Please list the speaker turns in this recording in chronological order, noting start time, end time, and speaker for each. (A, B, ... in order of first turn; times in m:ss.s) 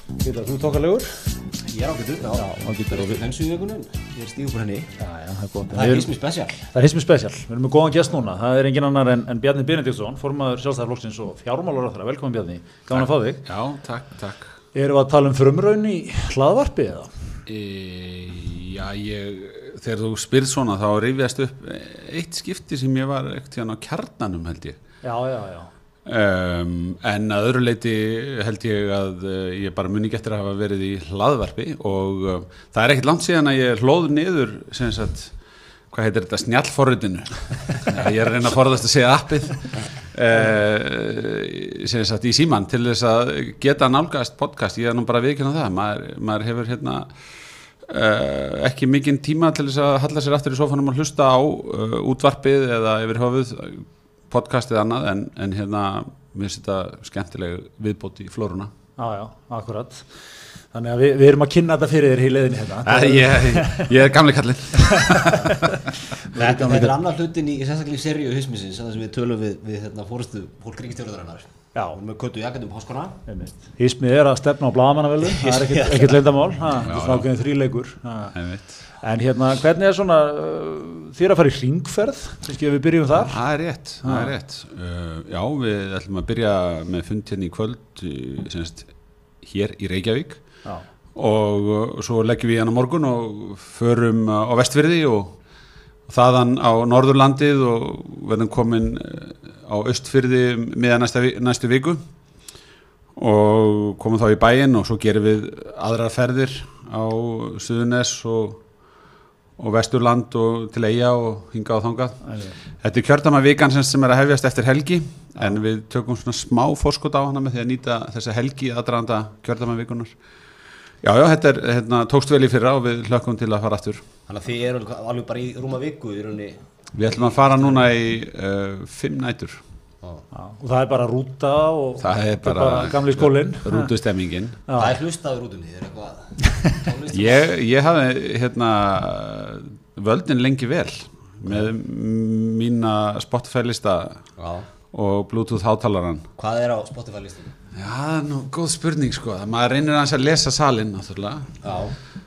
0:00.2-0:01.2 A
0:01.7-0:04.9 B
0:02.3-0:03.2 A
0:05.0-0:06.1 A
0:05.7-0:06.7 B
0:06.7-0:13.4 A
0:12.9-0:14.5 C
0:14.7-0:17.1 A
0:17.5-0:24.8 C
0:25.0-0:25.7 A
0:26.0-0:35.3 C
0:35.9-0:47.1 C
0:47.8-0:58.7 C
0:59.0-1:00.1 A
1:00.7-1:03.9 A
1:02.8-1:05.6 C
1:05.0-1:06.9 A
1:06.3-1:13.2 B
1:13.3-1:18.4 A
1:15.4-1:16.2 B
1:16.8-1:17.3 C
1:18.3-1:18.7 C
1:19.0-1:23.4 A
1:23.2-1:28.9 C
1:24.0-1:24.3 A
1:29.4-1:30.4 C
1:31.2-1:35.4 C
1:36.1-1:42.0 C
1:43.2-1:48.6 C
1:49.6-1:52.2 C
1:52.2-1:52.6 A
1:52.8-2:00.2 C
2:01.0-2:04.0 C
2:04.3-2:06.6 B
2:07.0-2:09.6 C
2:10.3-2:13.9 A
2:12.0-2:14.6 C
2:14.7-2:15.0 A
2:14.7-2:17.5 B
2:17.1-2:24.2 C
2:24.4-2:24.7 B
2:24.9-2:26.3 C
2:26.4-2:27.5 B
2:27.8-2:31.6 C
2:31.6-2:31.9 B